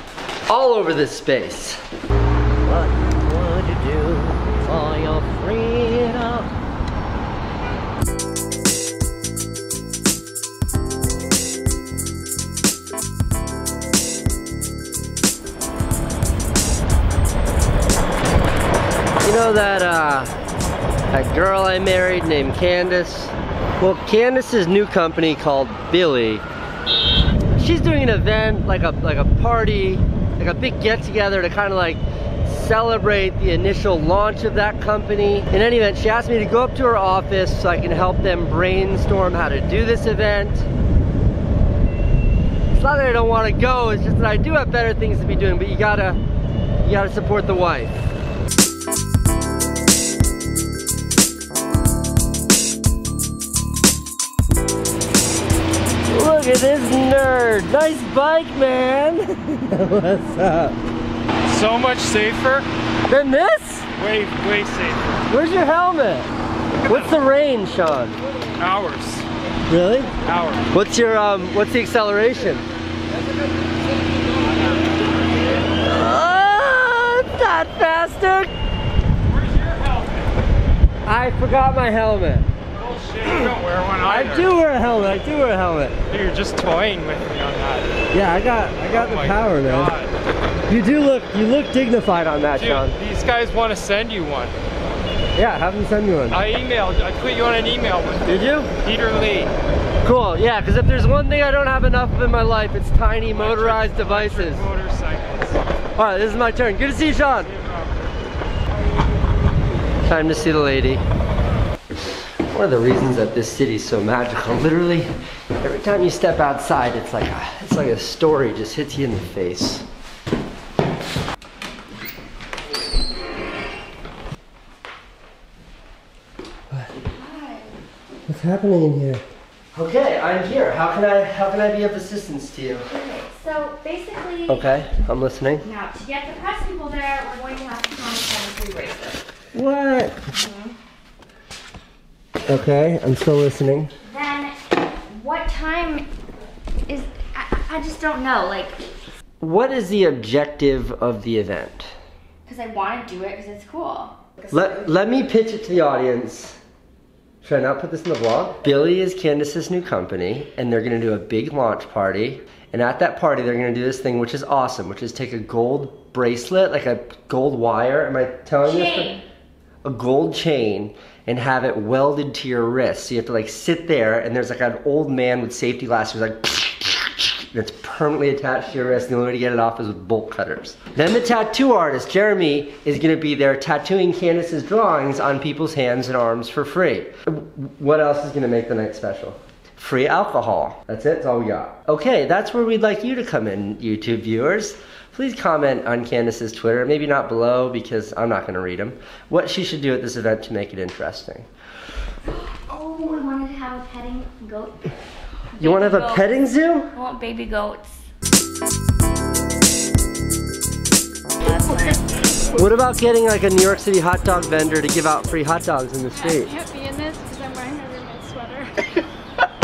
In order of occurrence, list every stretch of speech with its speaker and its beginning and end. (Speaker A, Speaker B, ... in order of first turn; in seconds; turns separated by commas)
Speaker A: 0.5-1.8, Speaker A: 2.7-6.3, Speaker A: 19.2-20.3, Speaker A: 21.1-26.4, Speaker A: 27.6-40.7, Speaker A: 42.7-46.2, Speaker A: 46.8-48.0, Speaker A: 56.1-60.8, Speaker B: 61.5-62.7, Speaker A: 63.1-63.9, Speaker B: 64.0-65.2, Speaker A: 65.3-66.3, Speaker B: 66.8-67.1, Speaker A: 66.9-68.2, Speaker B: 68.6-69.3, Speaker A: 69.7-70.1, Speaker B: 70.2-70.7, Speaker A: 70.7-72.6, Speaker A: 75.8-78.5, Speaker B: 79.3-80.3, Speaker A: 81.0-82.5, Speaker B: 82.8-84.5, Speaker A: 84.0-86.0, Speaker B: 86.1-87.9, Speaker A: 88.1-89.9, Speaker B: 88.9-90.1, Speaker A: 90.7-93.0, Speaker B: 92.6-94.5, Speaker A: 95.3-96.4, Speaker B: 96.3-99.5, Speaker A: 98.2-98.7, Speaker A: 100.0-104.7, Speaker B: 103.3-105.6, Speaker A: 106.0-107.5, Speaker B: 107.4-107.9, Speaker A: 110.0-111.0, Speaker A: 112.5-115.1, Speaker A: 115.6-119.8, Speaker C: 127.1-127.8, Speaker A: 128.3-129.2, Speaker A: 129.7-132.9, Speaker C: 132.9-134.8, Speaker A: 134.5-135.7, Speaker C: 135.6-139.2, Speaker A: 139.5-140.3, Speaker C: 140.3-140.7, Speaker A: 142.5-143.9, Speaker C: 144.1-146.1, Speaker C: 146.9-148.8, Speaker A: 149.4-151.9, Speaker C: 152.5-154.2, Speaker A: 154.5-156.6, Speaker A: 157.4-169.2, Speaker C: 168.6-169.2, Speaker A: 169.8-201.5, Speaker C: 202.3-204.9, Speaker C: 205.5-206.4, Speaker A: 205.6-206.9, Speaker C: 206.9-208.0, Speaker C: 211.4-212.0, Speaker A: 212.5-216.5, Speaker D: 216.1-218.7